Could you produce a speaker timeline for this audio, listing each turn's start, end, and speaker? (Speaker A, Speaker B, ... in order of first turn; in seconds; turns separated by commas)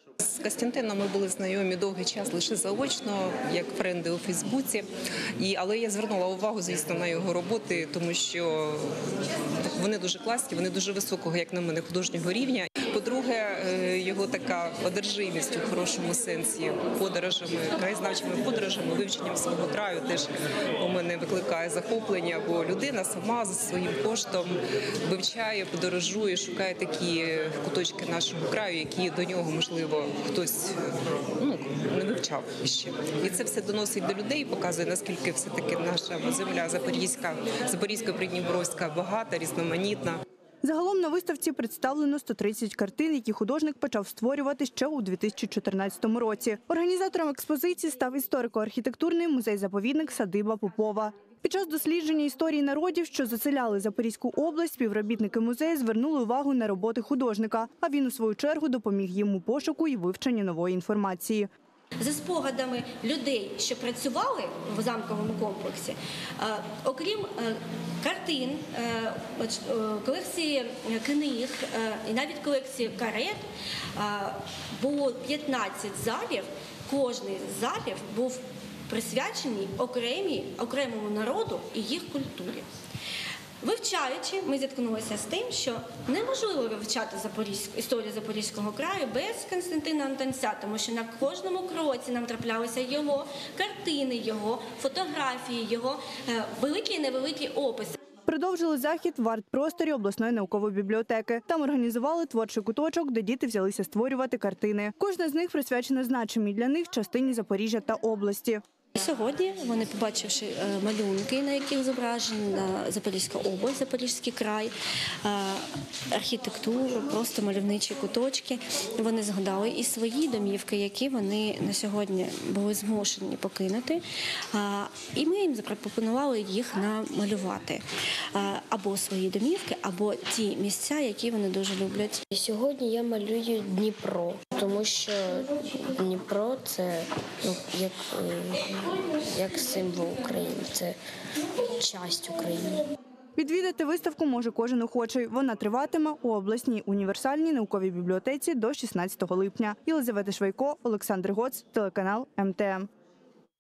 Speaker A: 0.2-9.0, Speaker A: 9.7-30.8, Speaker A: 31.4-40.2, Speaker B: 40.6-61.5, Speaker C: 62.0-73.4, Speaker C: 74.0-82.7, Speaker C: 83.6-98.0, Speaker B: 98.3-108.6, Speaker C: 109.0-132.3, Speaker D: 132.3-141.0, Speaker D: 141.6-142.9, Speaker B: 143.4-152.9